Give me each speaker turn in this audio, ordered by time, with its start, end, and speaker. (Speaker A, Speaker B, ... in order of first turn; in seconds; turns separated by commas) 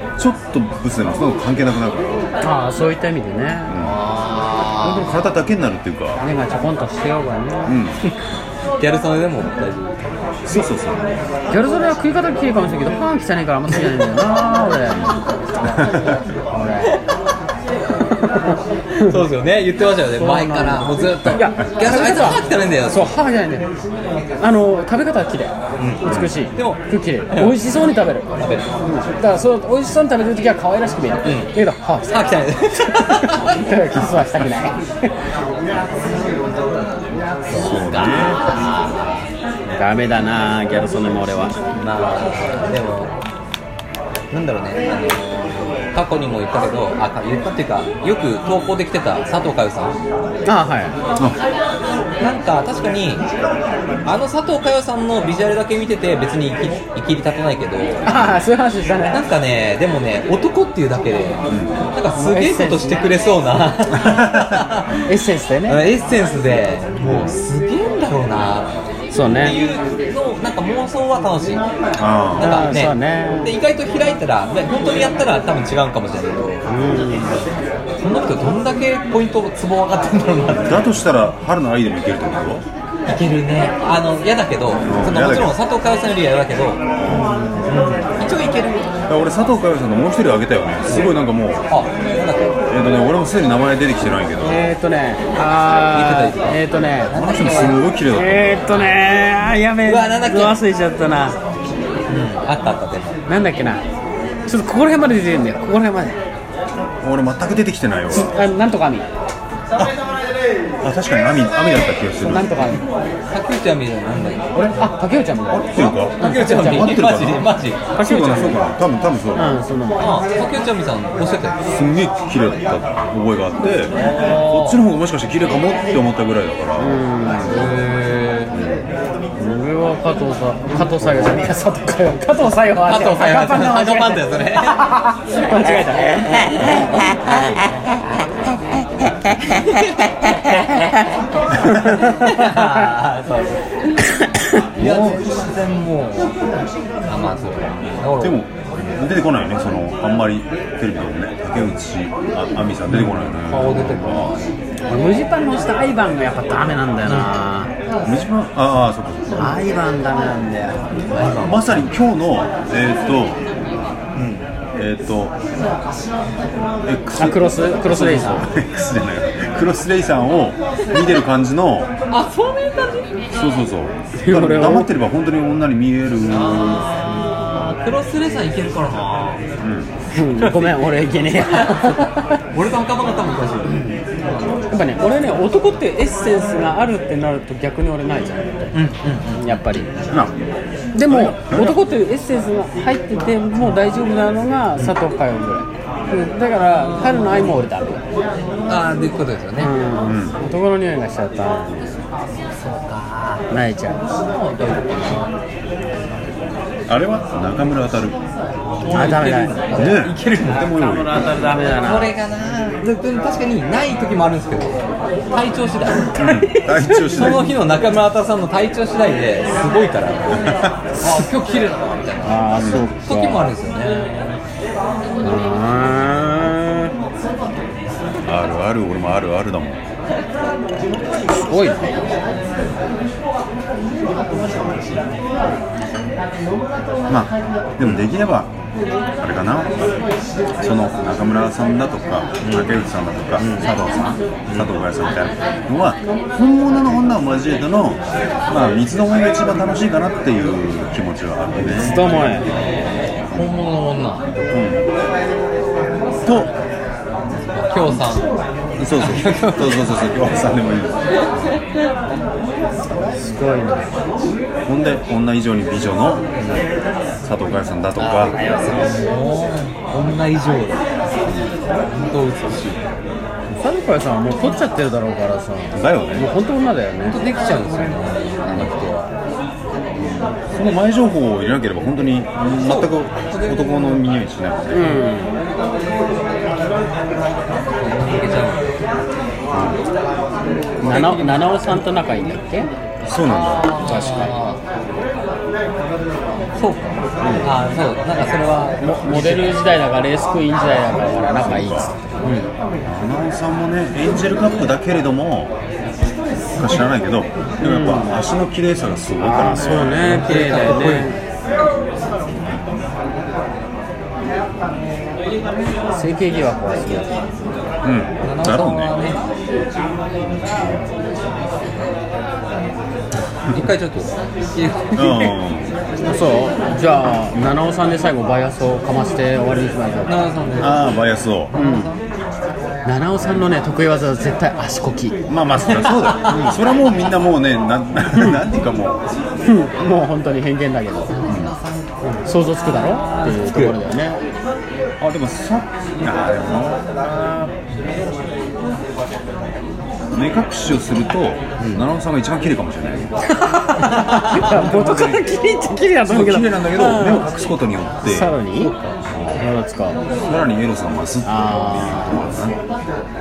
Speaker A: 0.2-2.3, Speaker B: 2.4-3.8, Speaker A: 3.7-4.0, Speaker C: 3.8-5.1, Speaker A: 4.8-6.2, Speaker B: 6.2-7.8, Speaker A: 7.7-8.0, Speaker C: 8.8-10.0, Speaker A: 10.5-11.0, Speaker B: 11.5-15.1, Speaker A: 15.7-16.2, Speaker B: 16.5-17.0, Speaker B: 18.1-19.2, Speaker C: 19.0-23.1, Speaker B: 20.2-23.7, Speaker B: 24.4-28.3, Speaker C: 25.8-27.6, Speaker A: 26.1-26.4, Speaker C: 28.4-28.7, Speaker B: 28.8-35.1, Speaker C: 31.2-31.5, Speaker C: 32.1-33.6, Speaker C: 36.8-39.3, Speaker A: 37.5-38.4, Speaker B: 39.7-41.6, Speaker C: 41.7-43.1, Speaker C: 44.3-50.0, Speaker B: 50.5-51.0, Speaker C: 52.2-53.3, Speaker C: 54.0-58.1, Speaker A: 58.0-58.4, Speaker B: 58.0-59.2, Speaker C: 59.1-65.0, Speaker A: 61.5-61.8, Speaker B: 62.1-63.1, Speaker A: 64.0-64.6, Speaker B: 65.1-65.8, Speaker C: 65.7-68.7, Speaker A: 67.0-67.3, Speaker B: 69.1-69.6, Speaker C: 69.3-71.7, Speaker A: 72.0-72.5, Speaker C: 72.3-77.1, Speaker B: 72.4-73.5, Speaker B: 76.7-77.4, Speaker C: 78.0-81.0, Speaker A: 80.5-82.7, Speaker C: 83.1-86.8, Speaker A: 84.8-85.6, Speaker A: 87.0-87.4, Speaker B: 87.1-87.7, Speaker C: 87.6-88.9, Speaker A: 89.1-91.6, Speaker C: 90.9-91.2, Speaker C: 91.7-92.6, Speaker A: 92.7-94.7, Speaker B: 94.4-97.5, Speaker C: 95.8-97.8, Speaker A: 97.1-98.9, Speaker B: 98.1-101.4, Speaker C: 99.8-100.6, Speaker C: 102.1-103.2, Speaker B: 103.3-103.8, Speaker B: 104.5-106.2, Speaker A: 107.0-108.4, Speaker B: 108.1-109.1, Speaker A: 110.8-112.7, Speaker B: 112.2-112.8, Speaker C: 113.3-114.5, Speaker A: 114.5-114.8, Speaker B: 114.8-117.0, Speaker A: 115.5-119.6, Speaker C: 115.8-117.8, Speaker B: 118.0-118.6, Speaker B: 119.3-120.2, Speaker C: 120.0-121.6, Speaker A: 121.6-127.5, Speaker C: 124.0-124.8, Speaker B: 126.8-127.6, Speaker C: 127.5-128.6, Speaker A: 128.5-128.9, Speaker B: 129.4-136.9, Speaker A: 131.0-131.5, Speaker C: 132.8-134.9, Speaker C: 136.2-137.6, Speaker C: 139.6-139.9, Speaker B: 141.7-142.6, Speaker C: 141.9-143.9, Speaker C: 144.8-146.4, Speaker A: 144.8-145.3, Speaker C: 147.0-148.4, Speaker A: 148.2-154.3, Speaker C: 152.9-154.6, Speaker B: 154.9-157.7, Speaker C: 157.1-157.3, Speaker A: 158.0-159.6, Speaker B: 159.4-161.1, Speaker C: 161.1-161.9, Speaker A: 161.4-163.4, Speaker C: 164.1-164.4, Speaker A: 164.8-165.4, Speaker A: 166.8-171.9, Speaker B: 167.2-168.5, Speaker C: 172.1-173.2, Speaker A: 173.3-176.9, Speaker B: 174.2-174.9, Speaker C: 176.3-179.4, Speaker A: 179.6-179.9, Speaker B: 180.1-182.4, Speaker C: 180.4-180.7, Speaker C: 181.4-184.0, Speaker B: 184.7-188.7, Speaker C: 188.7-189.5, Speaker B: 189.4-189.9, Speaker B: 190.9-198.0, Speaker A: 191.1-191.8, Speaker C: 198.7-199.7, Speaker B: 199.6-201.9, Speaker A: 200.0-200.4, Speaker C: 202.6-203.4, Speaker B: 203.5-204.0, Speaker C: 204.3-205.3, Speaker A: 206.9-208.2, Speaker C: 208.8-211.0, Speaker B: 208.9-210.0, Speaker A: 209.7-211.2, Speaker B: 210.8-212.1, Speaker C: 211.7-214.8, Speaker C: 215.3-216.2, Speaker A: 216.2-217.6, Speaker B: 216.2-217.4, Speaker C: 217.1-224.4, Speaker A: 220.4-220.8, Speaker B: 222.2-223.5, Speaker A: 222.6-222.9, Speaker B: 225.2-226.9, Speaker A: 228.2-229.8, Speaker B: 231.3-232.1, Speaker A: 237.1-238.5, Speaker A: 239.2-239.8, Speaker A: 240.6-252.6, Speaker C: 242.4-242.8, Speaker B: 243.4-243.7, Speaker C: 244.5-244.7, Speaker B: 251.6-252.5, Speaker C: 253.3-254.4, Speaker A: 253.3-253.6, Speaker A: 254.5-254.9, Speaker A: 256.2-256.5, Speaker C: 257.3-258.4, Speaker A: 258.8-261.6, Speaker C: 258.9-260.2, Speaker B: 263.2-264.0, Speaker A: 264.7-266.3, Speaker C: 266.4-266.7, Speaker A: 267.2-268.4, Speaker C: 268.0-272.9, Speaker B: 273.6-277.2, Speaker A: 275.7-276.3, Speaker C: 277.1-279.1, Speaker A: 278.5-278.7, Speaker A: 279.9-285.0, Speaker C: 282.6-283.9, Speaker B: 284.7-285.4, Speaker C: 287.8-288.7, Speaker A: 289.5-289.8, Speaker B: 290.8-292.7, Speaker C: 290.9-291.8, Speaker A: 293.0-293.8, Speaker C: 293.3-294.6, Speaker B: 293.8-294.3, Speaker C: 296.6-299.5, Speaker A: 297.2-297.5, Speaker B: 298.8-302.3, Speaker A: 301.4-301.9, Speaker C: 302.2-302.5, Speaker A: 302.9-305.5, Speaker A: 306.6-310.2, Speaker B: 307.6-308.2, Speaker B: 309.2-311.2, Speaker C: 309.9-311.2, Speaker B: 315.9-317.1, Speaker A: 317.8-319.0, Speaker C: 318.2-319.2, Speaker C: 323.5-325.1, Speaker A: 324.9-325.8, Speaker B: 326.1-330.1, Speaker C: 330.1-330.9, Speaker A: 330.6-331.5, Speaker B: 331.5-331.9, Speaker C: 331.5-332.0, Speaker B: 332.9-335.2, Speaker A: 335.3-339.1, Speaker C: 335.7-336.6, Speaker B: 336.3-336.6, Speaker B: 338.1-338.4, Speaker B: 339.5-341.1, Speaker C: 341.1-343.8, Speaker A: 341.3-341.6, Speaker B: 342.2-344.2, Speaker A: 345.0-347.5, Speaker A: 350.1-353.1, Speaker C: 351.6-351.9, Speaker B: 353.3-357.5, Speaker C: 353.9-354.4, Speaker A: 354.4-355.2, Speaker A: 356.1-358.4, Speaker B: 358.0-358.7, Speaker C: 358.6-359.3, Speaker B: 359.4-360.0, Speaker A: 360.2-362.6, Speaker B: 361.2-362.3